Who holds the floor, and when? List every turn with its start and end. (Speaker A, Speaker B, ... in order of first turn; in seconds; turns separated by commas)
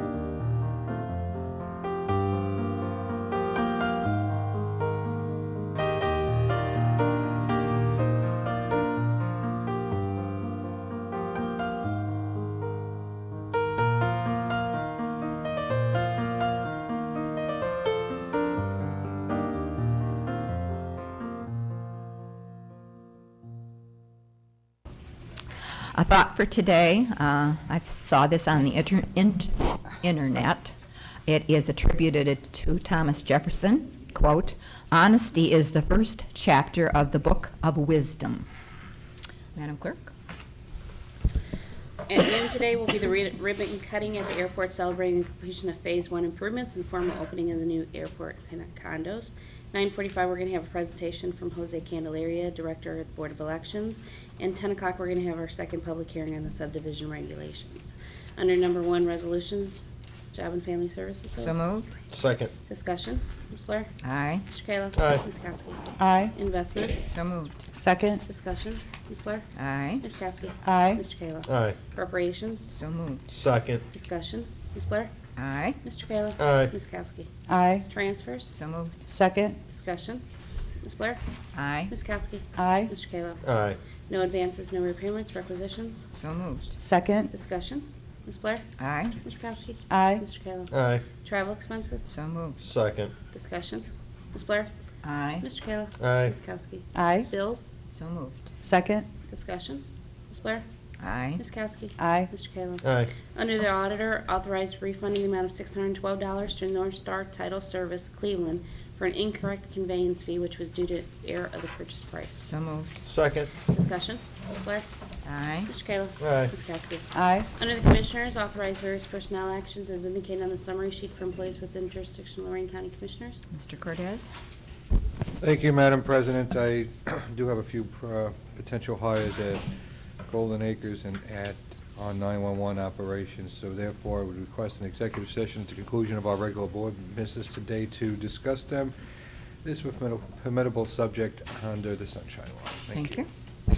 Speaker A: 25.9-30.7, Speaker A: 31.2-38.5, Speaker A: 39.5-40.1, Speaker B: 42.1-61.6, Speaker A: 61.4-62.0, Speaker C: 62.1-62.5, Speaker B: 62.7-63.9, Speaker A: 64.0-64.4, Speaker B: 64.5-67.1, Speaker C: 65.0-65.2, Speaker D: 66.0-66.3, Speaker A: 67.1-67.6, Speaker D: 67.7-68.2, Speaker B: 68.2-69.5, Speaker A: 69.5-70.0, Speaker B: 70.0-72.7, Speaker D: 70.6-71.0, Speaker C: 71.5-71.8, Speaker A: 72.7-73.3, Speaker C: 73.3-73.8, Speaker B: 73.9-75.1, Speaker A: 75.4-75.8, Speaker B: 75.8-77.3, Speaker C: 76.4-76.7, Speaker D: 77.5-77.9, Speaker B: 77.9-78.5, Speaker A: 78.5-78.9, Speaker D: 79.1-79.6, Speaker B: 79.7-80.2, Speaker B: 80.8-81.2, Speaker A: 81.5-81.9, Speaker B: 81.9-83.4, Speaker D: 82.5-82.9, Speaker C: 83.4-83.8, Speaker B: 84.1-86.1, Speaker A: 86.1-86.7, Speaker D: 86.8-87.3, Speaker B: 87.3-88.6, Speaker A: 88.8-89.1, Speaker B: 89.2-92.1, Speaker D: 89.9-90.2, Speaker C: 90.7-91.0, Speaker A: 92.1-92.6, Speaker C: 92.6-93.1, Speaker B: 93.3-94.7, Speaker A: 95.0-95.5, Speaker B: 95.4-97.7, Speaker C: 96.0-96.3, Speaker D: 96.9-97.3, Speaker A: 97.9-98.5, Speaker D: 98.6-99.1, Speaker B: 99.3-100.7, Speaker A: 101.0-101.4, Speaker B: 101.4-112.4, Speaker D: 102.0-102.3, Speaker C: 102.8-103.1, Speaker A: 112.4-113.0, Speaker C: 113.1-113.5, Speaker B: 113.7-114.8, Speaker A: 115.2-115.7, Speaker B: 115.7-123.4, Speaker C: 116.2-116.5, Speaker D: 117.1-117.5, Speaker A: 123.5-124.3, Speaker E: 125.4-129.7, Speaker E: 130.2-138.9, Speaker E: 139.6-143.2, Speaker A: 142.9-143.2